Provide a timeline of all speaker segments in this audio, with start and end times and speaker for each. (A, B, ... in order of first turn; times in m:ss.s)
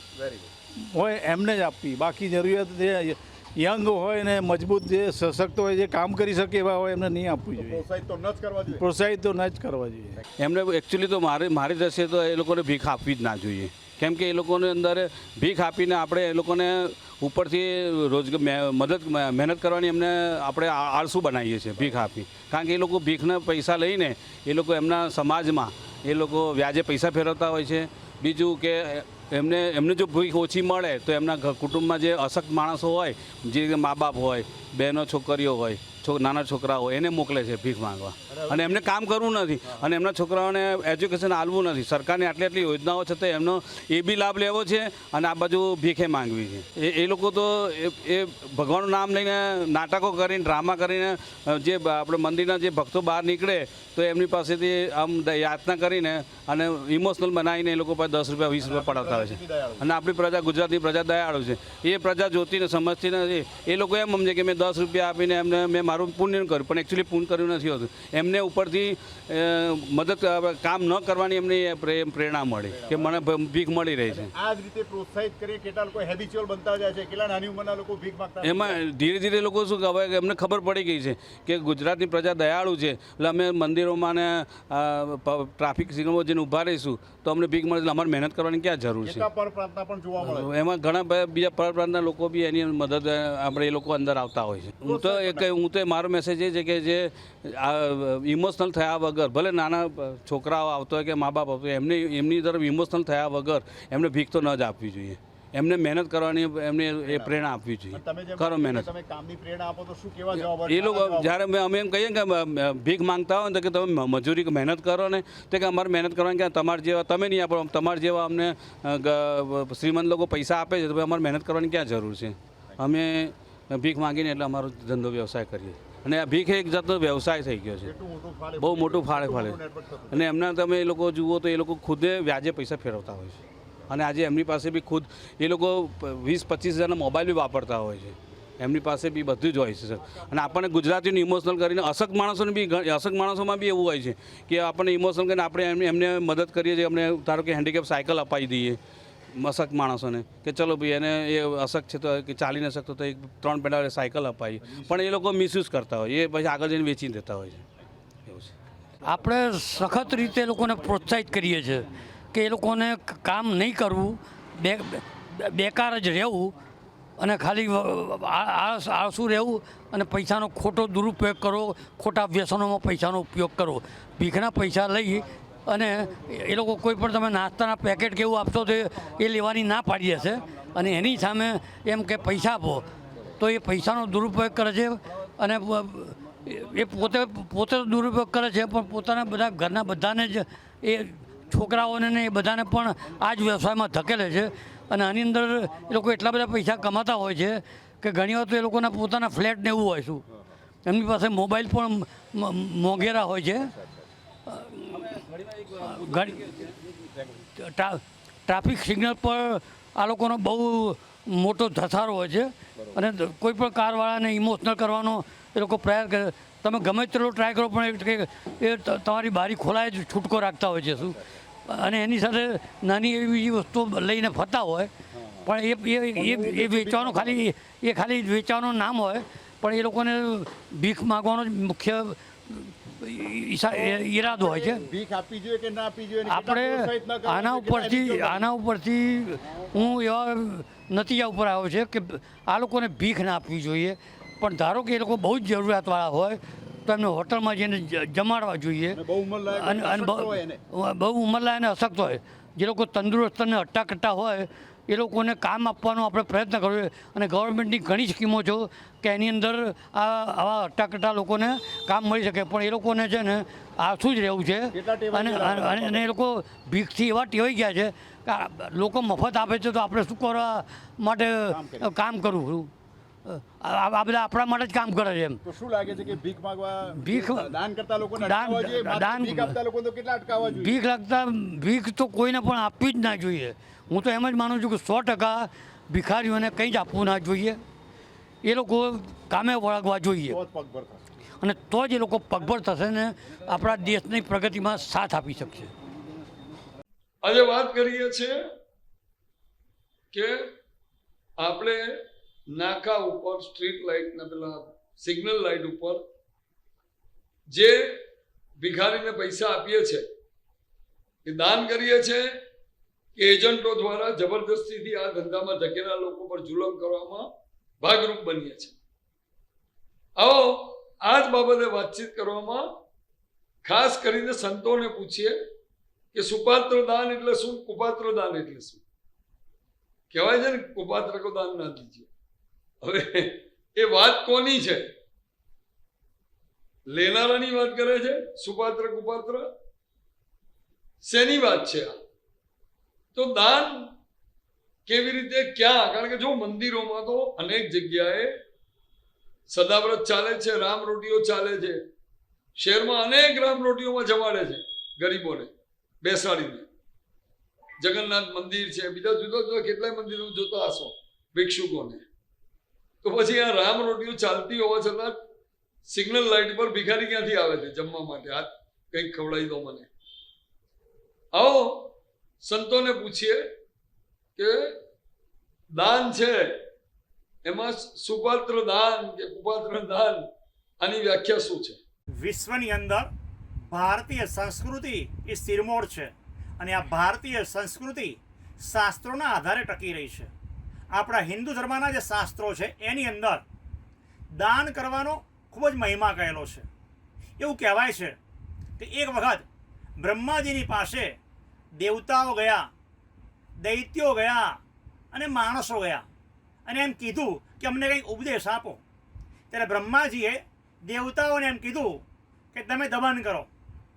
0:00.2-0:00.5 A
0:00.8-0:07.8 B
0:07.6-0:08.8 A
0:08.7-0:10.2 B
0:10.4-1:14.3 C
0:38.3-0:38.9 A
0:39.6-0:39.9 A
0:58.6-0:59.9 A
1:12.7-1:13.2 A
1:14.1-1:18.8 A
1:18.4-1:29.3 C
1:29.0-1:30.5 A
1:30.2-1:48.9 C
1:34.8-1:35.5 A
1:47.0-1:47.4 A
1:47.9-1:51.4 A
1:50.4-2:07.9 C
2:07.8-2:10.3 A
2:08.6-2:09.6 C
2:10.1-2:28.8 C
2:29.4-2:37.6 C
2:34.7-2:35.1 A
2:38.3-2:38.5 C
2:39.0-2:46.5 D
2:47.2-3:02.9 D
3:03.4-3:20.2 D
3:20.3-3:20.5 A
3:20.9-3:23.7 D
3:23.6-3:24.1 A
3:24.5-3:25.2 D
3:25.8-3:26.7 D
3:27.2-3:27.4 A
3:27.6-3:44.9 D
3:41.0-3:41.3 A
3:45.1-3:45.5 A
3:45.4-3:54.8 D
3:46.2-3:47.4 A
3:53.7-3:58.5 A
3:56.3-4:09.0 D
4:08.9-4:10.6 A
4:09.5-4:32.7 D
4:24.7-4:26.1 A
4:31.5-4:31.9 A
4:33.3-4:35.4 D
4:35.4-4:40.8 A
4:37.0-4:37.5 D
4:38.2-4:39.6 D
4:40.5-4:47.6 D
4:48.4-4:50.4 D
4:50.3-4:51.0 A
4:51.4-4:55.7 D
4:57.2-4:58.4 E
5:00.1-5:00.5 E
5:01.4-5:02.0 E
5:02.5-5:06.0 E
5:07.5-5:08.0 E
5:08.6-5:10.1 E
5:11.3-5:12.4 E
5:13.2-5:17.3 E
5:17.8-5:18.8 E
5:20.2-5:22.7 E
5:23.6-5:25.4 E
5:26.1-5:28.8 E
5:30.1-5:32.1 E
5:32.8-5:34.9 E
5:36.9-5:39.5 E
5:41.0-5:42.0 E
5:43.2-5:43.9 E
5:44.9-5:48.3 E
5:49.5-5:51.8 E
5:52.6-5:55.5 E
5:56.0-5:56.7 E
5:57.8-6:02.0 E
6:03.0-6:05.2 E
6:05.9-6:09.9 E
6:11.3-6:11.9 E
6:12.4-6:13.4 E
6:14.4-6:14.8 E
6:15.8-6:16.6 E
6:17.4-6:20.2 E
6:20.8-6:21.8 E
6:22.2-6:23.1 F
6:23.7-6:30.3 F
6:30.9-6:33.4 F
6:34.4-6:36.7 F
6:37.4-6:38.2 F
6:38.8-6:39.4 F
6:40.0-6:41.2 F
6:41.8-6:42.7 F
6:43.6-6:44.6 F
6:45.1-6:46.0 F
6:46.7-6:48.8 F
6:49.5-6:52.0 F
6:52.5-6:53.5 F